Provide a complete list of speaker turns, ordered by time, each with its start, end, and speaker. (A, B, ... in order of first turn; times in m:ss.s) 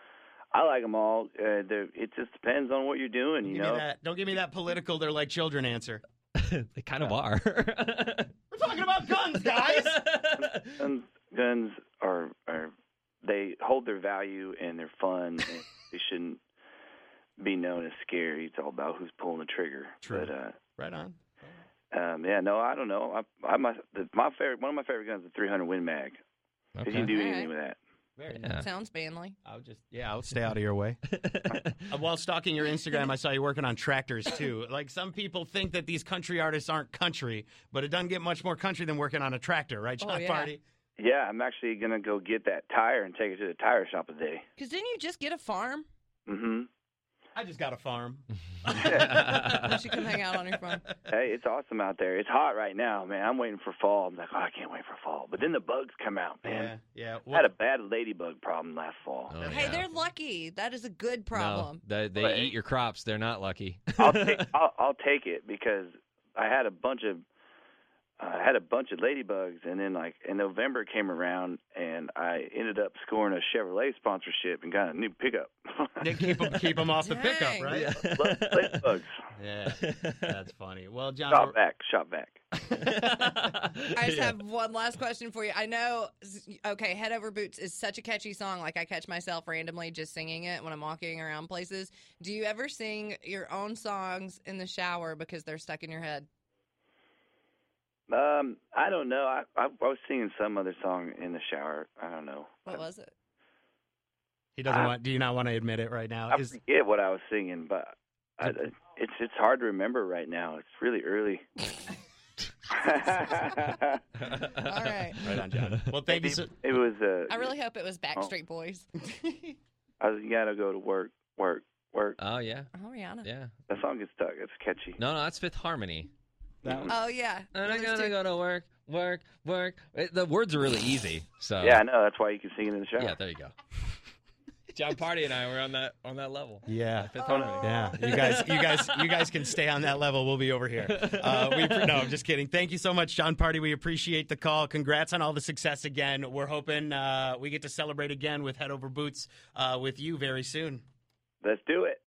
0:00.5-0:03.8 A
0:03.4-0:06.0 B
0:06.4-0:08.3 C
0:08.5-0:10.0 B
0:09.5-0:10.7 C
0:10.7-0:12.7 A
0:13.2-0:16.4 A
0:17.4-0:20.6 A
0:20.0-0:21.5 B
0:21.9-0:26.2 A
0:26.8-0:27.1 C
0:26.8-0:27.8 A
0:27.1-0:27.5 D
0:28.2-0:28.6 B
0:28.6-0:29.4 D
0:29.4-0:31.0 B
0:31.2-0:31.7 C
0:31.9-0:40.6 B
0:40.0-0:40.5 D
0:41.0-0:44.4 A
0:44.6-0:45.9 D
0:46.3-0:46.7 A
0:47.3-0:50.9 B
0:48.8-0:49.6 A
0:49.2-0:49.5 C
0:49.2-0:50.8 D
0:51.1-0:56.7 A
0:56.4-0:57.5 B
0:57.3-0:59.7 A
0:59.3-0:59.9 C
0:59.4-1:01.8 D
1:01.3-1:04.4 C
1:02.2-1:02.5 A
1:04.0-1:07.2 A
1:08.2-1:16.2 A
1:16.0-1:17.9 B
1:17.0-1:17.7 D
1:17.6-1:18.8 C
1:17.7-1:19.1 A
1:19.4-1:21.6 B
1:19.7-1:20.1 C
1:21.3-1:22.4 A
1:22.7-1:24.3 C
1:23.9-1:36.2 D
1:38.1-1:42.8 A
1:42.6-1:43.1 D
1:44.6-1:46.6 B
1:46.3-1:51.4 A
1:52.7-1:54.0 A
1:54.2-1:55.0 C
1:54.5-1:55.2 D
1:55.2-1:56.5 B
1:56.0-1:57.5 A
1:57.3-1:58.9 D
1:59.2-1:59.5 B
2:00.0-2:02.2 A
2:02.2-2:02.7 C
2:02.7-2:03.3 D
2:03.2-2:03.5 C
2:03.7-2:05.0 A
2:05.0-2:06.1 C
2:06.6-2:06.9 B
2:06.9-2:08.1 D
2:07.5-2:11.8 C
2:11.6-2:13.2 A
2:13.0-2:13.5 C
2:14.7-2:19.1 C
2:16.7-2:30.8 B
2:17.2-2:17.7 A
2:17.3-2:17.6 D
2:20.9-2:22.0 C
2:31.4-2:32.0 A